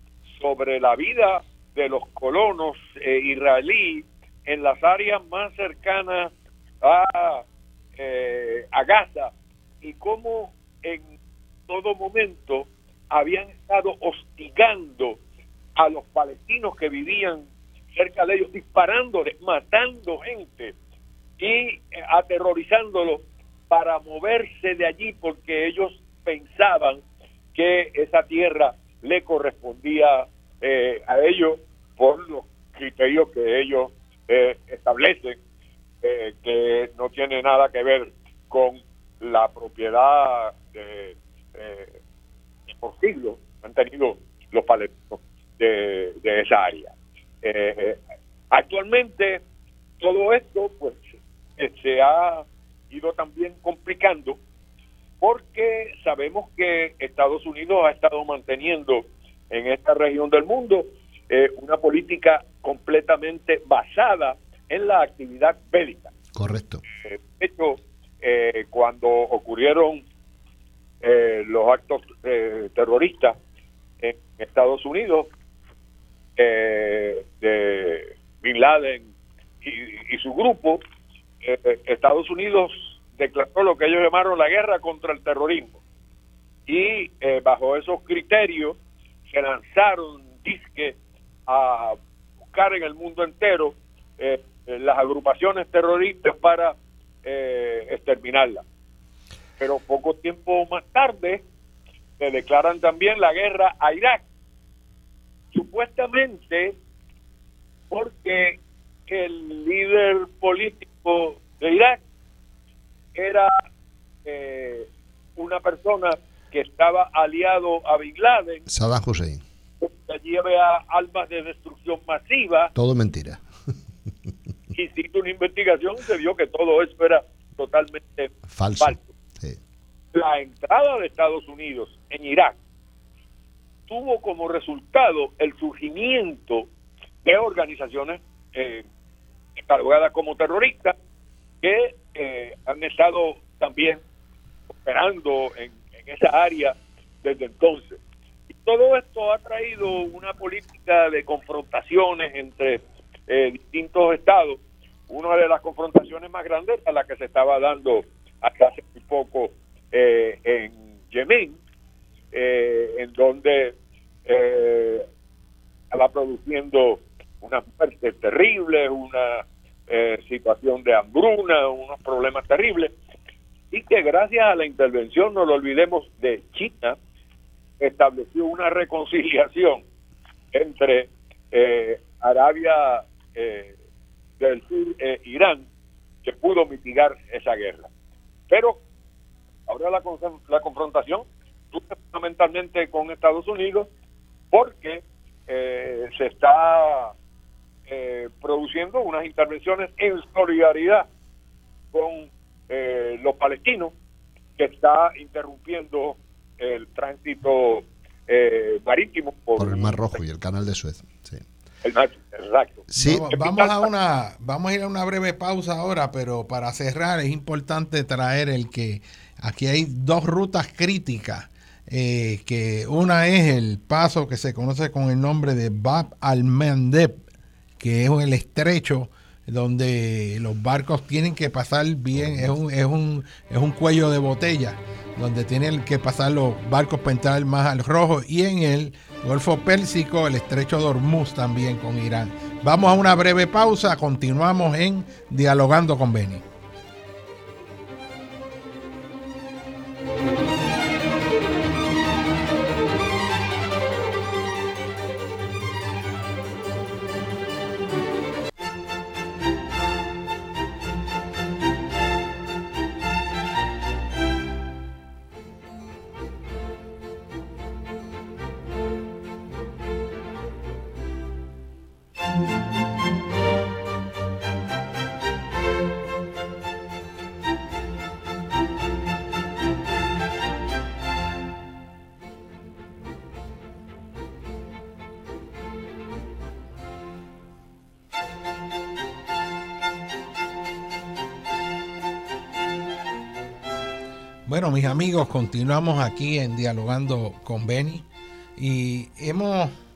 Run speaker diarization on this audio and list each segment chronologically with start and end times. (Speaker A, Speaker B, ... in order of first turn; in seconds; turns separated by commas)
Speaker A: 0.4-6.3, Speaker A: 6.8-7.5, Speaker A: 8.0-11.0, Speaker A: 11.7-15.2, Speaker A: 15.8-20.7, Speaker A: 21.4-27.0, Speaker A: 27.6-35.4, Speaker A: 36.0-41.9, Speaker A: 42.7-48.0, Speaker A: 48.5-49.4, Speaker A: 50.0-51.0, Speaker A: 51.6-54.4, Speaker A: 55.2-66.1, Speaker B: 66.3-66.8, Speaker A: 67.0-70.0, Speaker A: 71.0-73.4, Speaker A: 74.0-75.3, Speaker A: 76.4-79.1, Speaker A: 79.6-80.8, Speaker A: 81.4-85.7, Speaker A: 86.7-88.8, Speaker A: 89.3-92.0, Speaker A: 92.5-98.6, Speaker A: 99.6-101.5, Speaker A: 102.2-104.2, Speaker A: 105.5-106.8, Speaker A: 107.9-112.0, Speaker A: 113.2-113.5, Speaker A: 114.2-118.7, Speaker B: 118.7-119.4, Speaker A: 119.8-122.7, Speaker B: 122.8-123.4, Speaker A: 124.7-129.1, Speaker B: 128.5-129.6, Speaker A: 130.1-132.6, Speaker A: 133.9-136.7, Speaker A: 137.2-138.8, Speaker A: 139.6-141.0, Speaker A: 141.6-144.0, Speaker A: 144.8-148.0, Speaker A: 148.5-161.6, Speaker A: 162.3-165.1, Speaker A: 165.9-172.9, Speaker A: 173.7-177.0, Speaker A: 177.8-179.8, Speaker A: 180.5-183.7, Speaker A: 184.4-185.7, Speaker A: 186.2-187.9, Speaker A: 188.5-188.8, Speaker A: 189.7-193.9, Speaker A: 194.5-197.1, Speaker A: 197.9-201.1, Speaker A: 201.9-203.9, Speaker A: 204.6-210.1, Speaker B: 209.6-211.4, Speaker A: 211.8-213.8, Speaker B: 212.9-213.2, Speaker C: 213.0-227.2, Speaker C: 227.8-246.4, Speaker B: 232.2-232.5, Speaker C: 294.5-298.1, Speaker C: 298.6-299.7